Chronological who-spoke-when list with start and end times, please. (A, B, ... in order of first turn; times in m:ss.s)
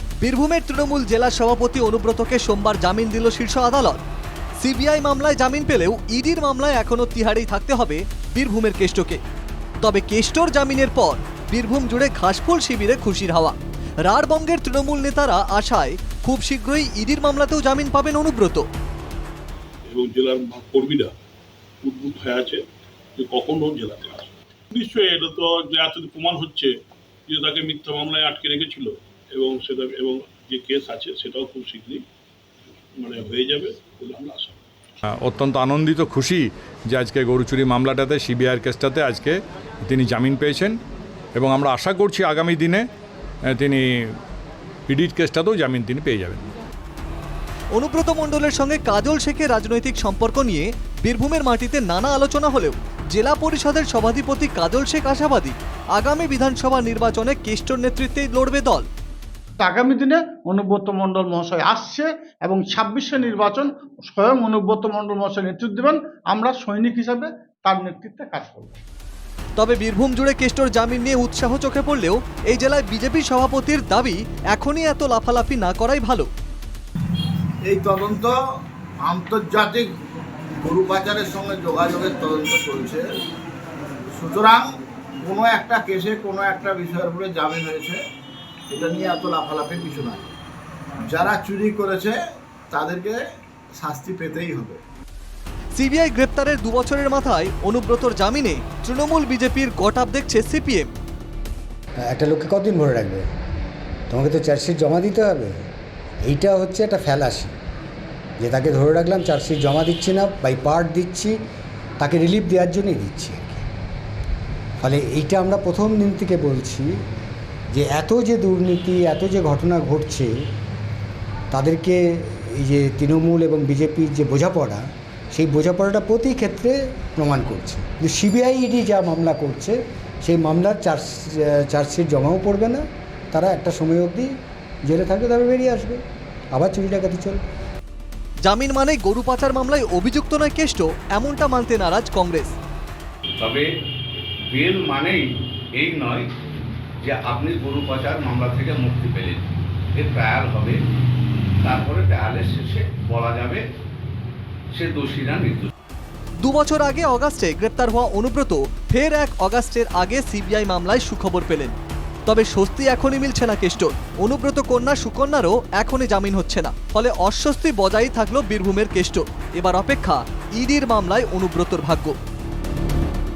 0:00.2-0:04.0 A
0:04.6-0:09.2 A
0:09.8-0:18.6 A
0:19.9-0:21.1 B
0:21.8-0:22.6 B
0:23.2-0:26.8 B
0:27.3-0:32.0 B
0:33.0-0:34.6 B
0:35.1-0:40.8 C
0:41.4-0:42.9 C
0:43.5-0:44.1 C
0:44.9-0:46.4 C
0:47.7-0:58.9 A
0:59.6-1:08.8 D
1:09.6-1:16.3 A
1:17.6-1:18.3 E
1:19.0-1:19.9 E
1:20.6-1:23.1 E
1:24.1-1:24.7 E
1:25.2-1:28.0 E
1:28.7-1:30.3 E
1:31.1-1:32.2 E
1:32.7-1:33.2 E
1:33.8-1:34.8 E
1:35.8-1:40.9 A
1:42.1-1:43.3 F
1:44.1-1:45.6 F
1:46.2-1:47.6 F
1:48.4-1:51.4 F
1:52.0-1:53.7 F
1:54.8-1:57.0 F
1:57.7-2:00.4 F
2:01.5-2:14.3 F
2:14.9-2:16.0 F
2:16.6-2:17.4 F
2:18.5-2:22.6 A
2:23.4-2:23.7 G
2:24.5-2:25.2 G
2:25.8-2:26.3 G
2:27.0-2:30.8 G
2:31.6-2:33.6 G
2:34.8-2:35.7 G
2:36.4-2:41.7 A
2:42.3-2:52.2 A